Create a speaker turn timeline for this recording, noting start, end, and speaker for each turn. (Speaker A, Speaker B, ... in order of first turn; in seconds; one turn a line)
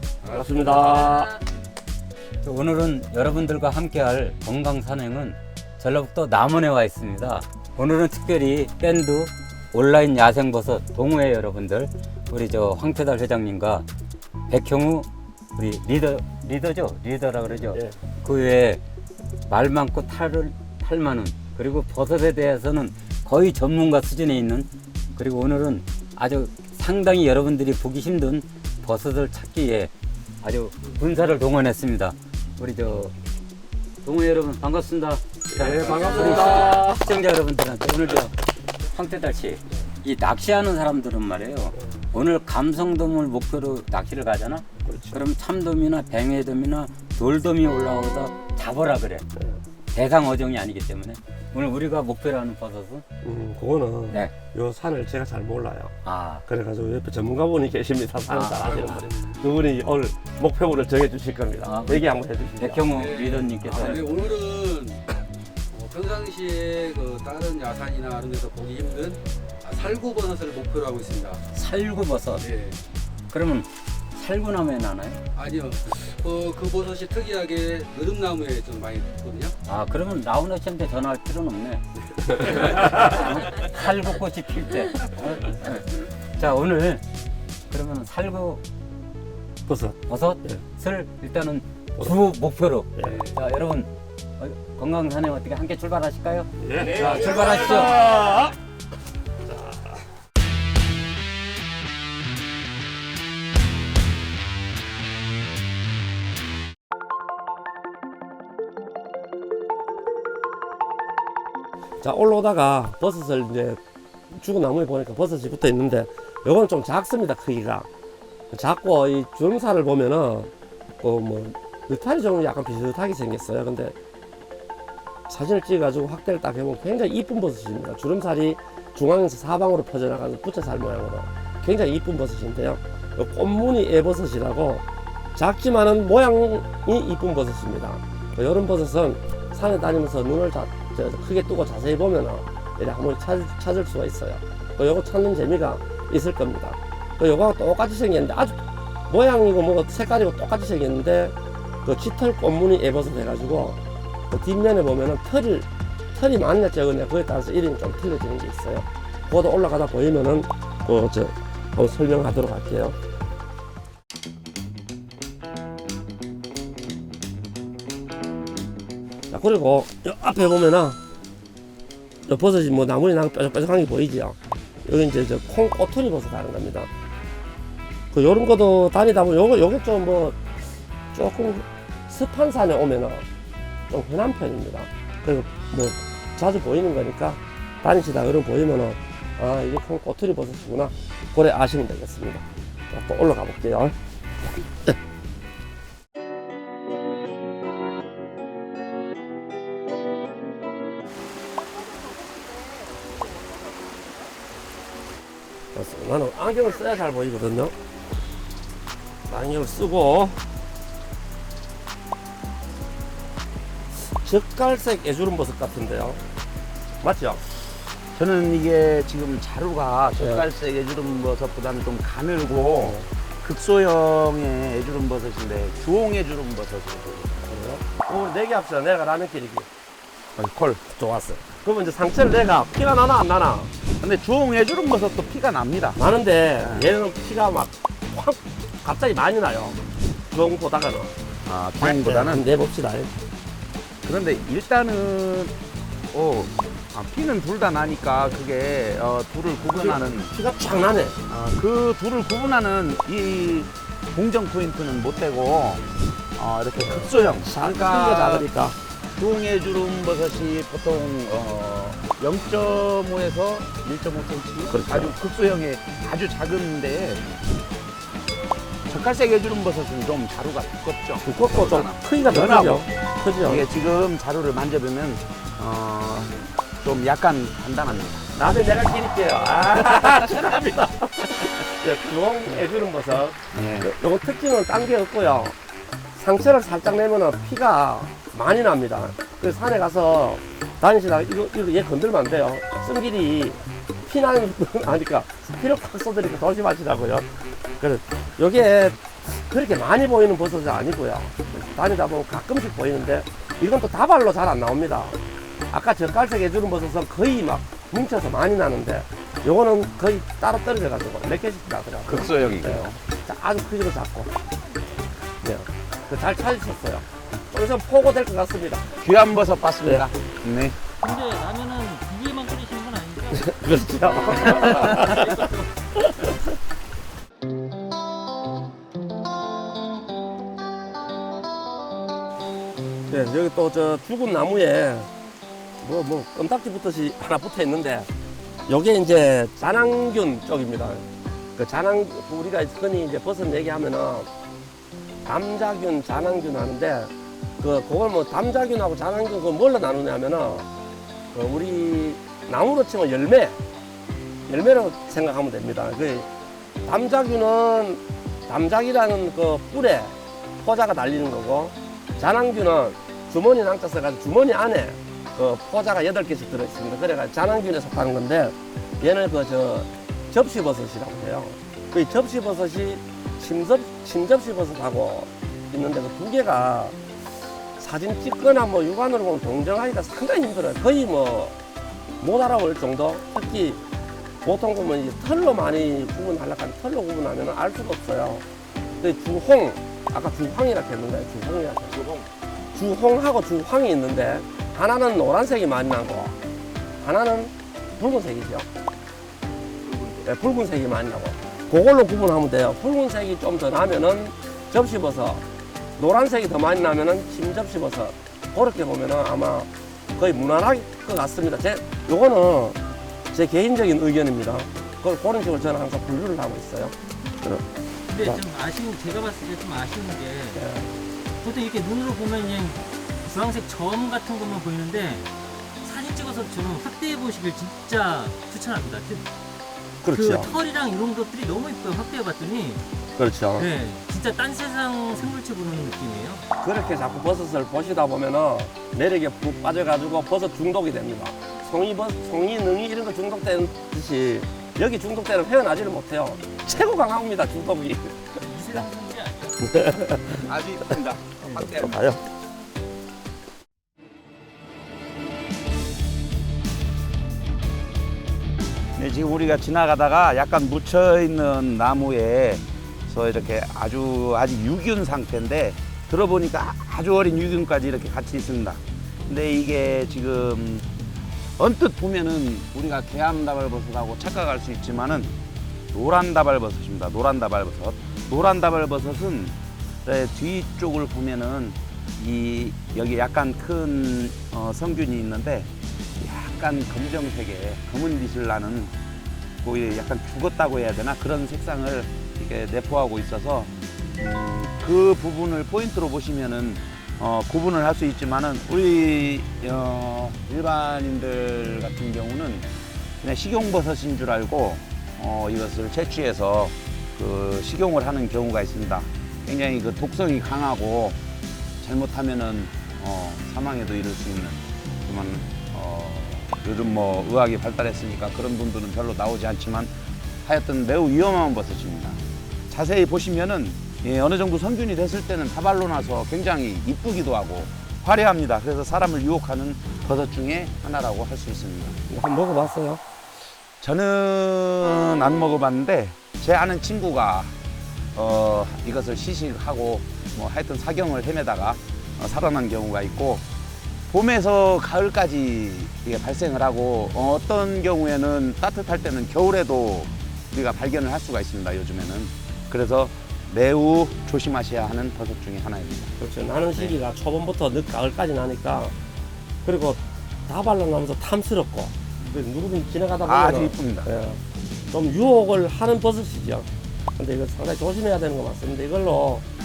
Speaker A: 0.2-1.3
Speaker B: 0.8-1.3
Speaker C: 2.4-13.8
Speaker C: 14.5-18.8
Speaker C: 19.5-29.9
Speaker C: 30.4-33.1
Speaker C: 34.0-49.2
Speaker A: 35.5-37.1
Speaker A: 44.8-45.2
Speaker C: 49.9-53.0
Speaker A: 53.2-55.9
Speaker C: 56.0-56.4
Speaker A: 56.5-63.0
Speaker C: 58.3-59.0
Speaker D: 58.7-59.4
Speaker C: 61.6-64.3
Speaker D: 63.0-65.0
Speaker D: 65.7-71.4
Speaker C: 71.5-72.5
Speaker C: 73.3-75.2
Speaker D: 75.3-79.5
Speaker C: 79.6-87.0
Speaker C: 87.7-88.6
Speaker A: 89.7-90.6
Speaker C: 90.1-98.0
Speaker A: 96.6-98.5
Speaker A: 99.5-99.9
Speaker A: 112.0-113.8
Speaker A: 114.3-117.9
Speaker A: 118.5-124.0
Speaker A: 125.3-134.8
Speaker A: 135.3-162.9
Speaker A: 169.3-171.0
Speaker A: 172.2-176.9
Speaker A: 178.1-180.4
Speaker A: 181.1-183.2
Speaker A: 183.9-194.9
Speaker A: 205.7-207.7
Speaker A: 209.3-210.4
Speaker A: 213.9-216.2
Speaker A: 217.0-217.4
Speaker E: 218.1-227.4
Speaker A: 220.2-220.4
Speaker A: 222.8-223.1
Speaker A: 227.4-229.7
Speaker E: 230.3-230.8
Speaker A: 230.9-233.7
Speaker E: 234.0-236.0
Speaker A: 235.9-241.1
Speaker E: 236.6-236.9
Speaker E: 241.4-242.4
Speaker A: 241.8-243.1
Speaker E: 244.0-245.5
Speaker E: 246.1-250.3
Speaker A: 249.7-251.2
Speaker E: 251.3-255.8
Speaker E: 256.4-258.5
Speaker A: 256.8-258.8
Speaker E: 259.1-267.2
Speaker A: 264.7-265.1
Speaker E: 268.9-278.4
Speaker A: 271.2-273.7
Speaker A: 278.4-285.6
Speaker E: 283.5-283.9
Speaker A: 286.1-297.3
Speaker A: 297.8-305.2
Speaker A: 305.7-314.3
Speaker E: 312.1-313.0
Speaker A: 315.4-319.0
Speaker E: 318.9-320.8
Speaker B: 321.0-325.7
Speaker A: 323.3-326.4
Speaker A: 333.1-335.1
Speaker A: 335.8-338.1
Speaker A: 338.7-341.0
Speaker A: 341.6-344.3
Speaker A: 345.2-350.7
Speaker A: 351.3-353.6
Speaker A: 354.5-356.3
Speaker A: 356.8-377.0
Speaker A: 377.8-381.6
Speaker A: 382.2-383.8
Speaker A: 384.4-388.4
Speaker A: 389.0-392.2
Speaker A: 392.7-396.4
Speaker A: 397.0-398.7
Speaker A: 400.2-405.4
Speaker A: 406.0-412.8
Speaker A: 413.3-417.6
Speaker B: 418.1-420.6
Speaker A: 420.5-420.9
Speaker B: 421.4-425.3
Speaker B: 425.8-429.3
Speaker A: 430.0-430.5
Speaker B: 430.1-432.8
Speaker A: 433.2-433.7
Speaker B: 433.6-436.4
Speaker A: 436.6-448.4
Speaker B: 448.4-449.6
Speaker A: 449.6-450.4
Speaker E: 450.4-452.0
Speaker A: 451.5-452.2
Speaker E: 458.9-470.9
Speaker E: 471.6-475.3
Speaker E: 475.9-488.9
Speaker E: 489.6-502.7
Speaker E: 503.2-511.2
Speaker E: 511.8-519.9
Speaker E: 520.4-532.0
Speaker A: 532.1-533.0
Speaker E: 533.8-537.5
Speaker E: 538.1-543.5
Speaker E: 544.1-556.1
Speaker A: 556.2-558.9
Speaker A: 559.6-569.5
Speaker E: 563.2-564.1